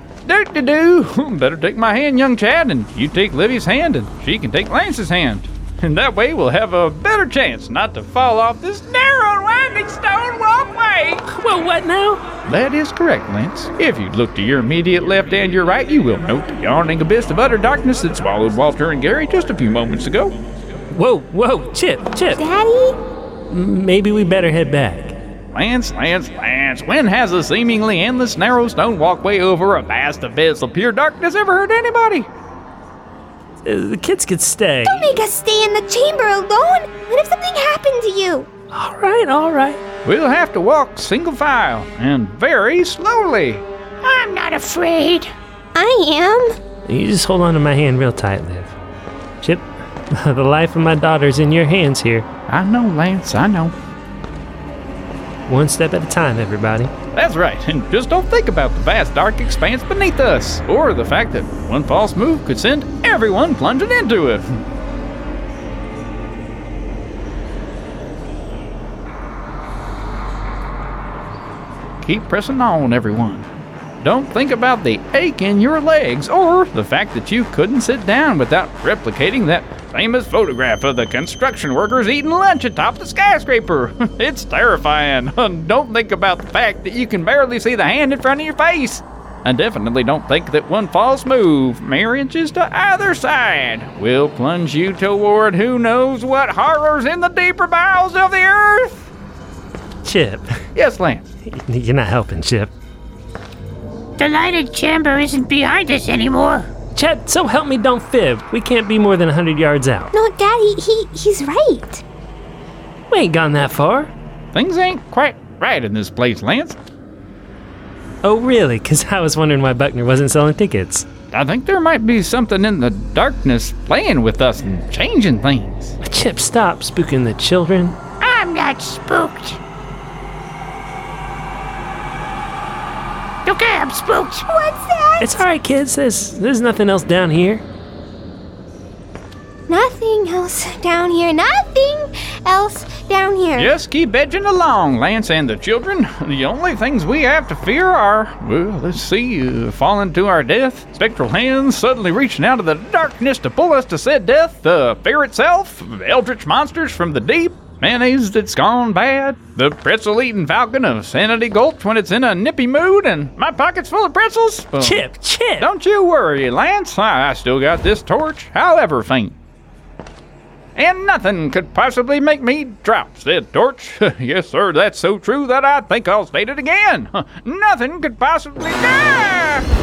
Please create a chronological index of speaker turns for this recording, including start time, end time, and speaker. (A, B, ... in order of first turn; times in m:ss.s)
0:00.2-0:11.2 A
0:11.3-0:12.2 B
0:12.4-0:20.3 A
0:20.9-0:22.4 B
0:22.4-0:23.0 C
0:23.5-0:25.2 B
0:25.5-0:32.3 A
0:33.6-0:35.1 B
0:34.8-0:38.5 C
0:38.7-0:39.8 B
0:40.0-0:43.6 A
0:44.0-0:45.3 D
0:45.7-0:46.6 C
0:46.8-0:48.7 B
0:49.4-0:52.3 B
0:52.5-0:53.7 A
0:55.5-0:56.9 B
0:57.1-1:04.6 A
1:12.0-1:13.5 A
1:14.0-1:39.1 A
1:40.0-1:40.5 B
1:40.7-1:41.3 A
1:41.5-1:42.7 B
1:44.2-1:46.7 D
1:46.9-1:50.1 B
1:50.1-1:52.0 C
1:53.1-1:54.1 B
1:54.5-1:56.8 A
1:58.2-2:01.0 B
2:01.3-2:05.9 A
2:06.0-2:08.0 B
2:08.2-2:09.6 D
2:13.4-2:14.4 D
2:14.5-2:15.4 C
2:15.2-2:17.6 B
2:19.7-2:23.7 C
2:23.6-2:45.0 A
2:44.8-2:45.7 B
2:45.6-2:49.3 A
2:50.8-2:59.7 A